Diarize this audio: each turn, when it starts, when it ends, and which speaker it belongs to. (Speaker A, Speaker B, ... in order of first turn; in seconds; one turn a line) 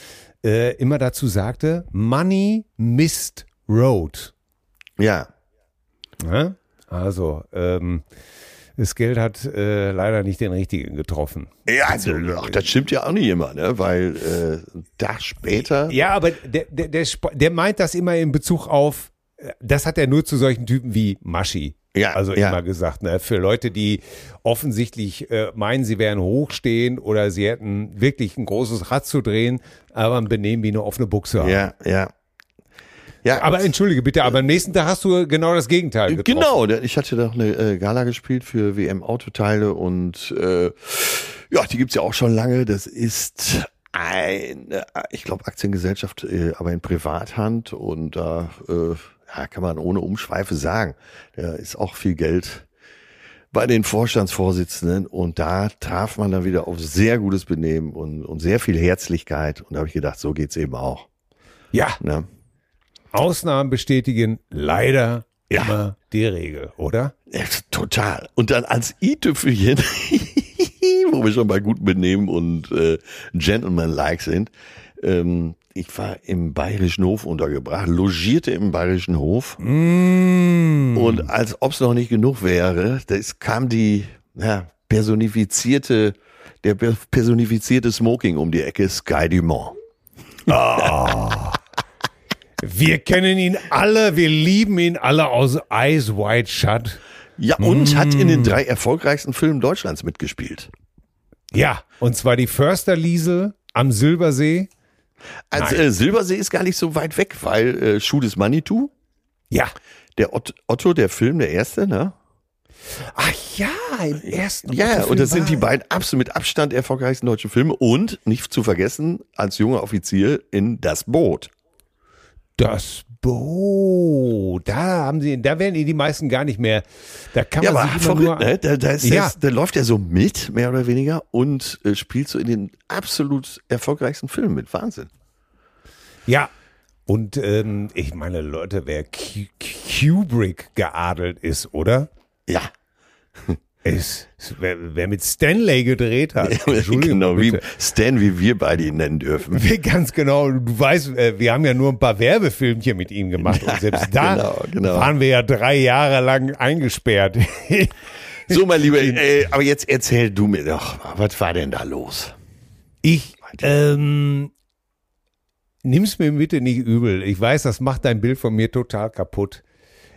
Speaker A: 0.4-4.3
Speaker B: 5.0-5.3
Speaker A: 6.2-8.0
Speaker A: 8.8-12.7
Speaker B: 11.7-15.9
Speaker A: 15.8-31.7
Speaker B: 21.9-22.6
Speaker B: 31.4-32.1
Speaker B: 33.2-33.6
Speaker A: 33.3-36.5
Speaker B: 36.1-52.7
Speaker B: 53.5-61.1
Speaker A: 61.7-62.0
Speaker B: 62.0-62.3
Speaker A: 63.1-67.1
Speaker B: 65.5-65.8
Speaker B: 67.3-79.6
Speaker A: 79.6-81.3
Speaker B: 80.9-89.8
Speaker A: 90.5-91.6
Speaker A: 92.6-97.0
Speaker B: 97.4-100.7
Speaker A: 97.6-98.6
Speaker A: 101.5-104.7
Speaker B: 105.5-108.9
Speaker A: 105.5-105.8
Speaker B: 110.2-112.1
Speaker A: 113.1-115.6
Speaker B: 114.6-121.5
Speaker A: 122.6-129.3
Speaker B: 127.6-135.1
Speaker A: 137.1-142.1
Speaker A: 143.8-147.7
Speaker B: 146.4-149.6
Speaker A: 149.5-158.0
Speaker B: 153.4-155.1
Speaker A: 158.5-159.2
Speaker B: 158.5-162.3
Speaker A: 163.0-164.5
Speaker A: 165.8-169.6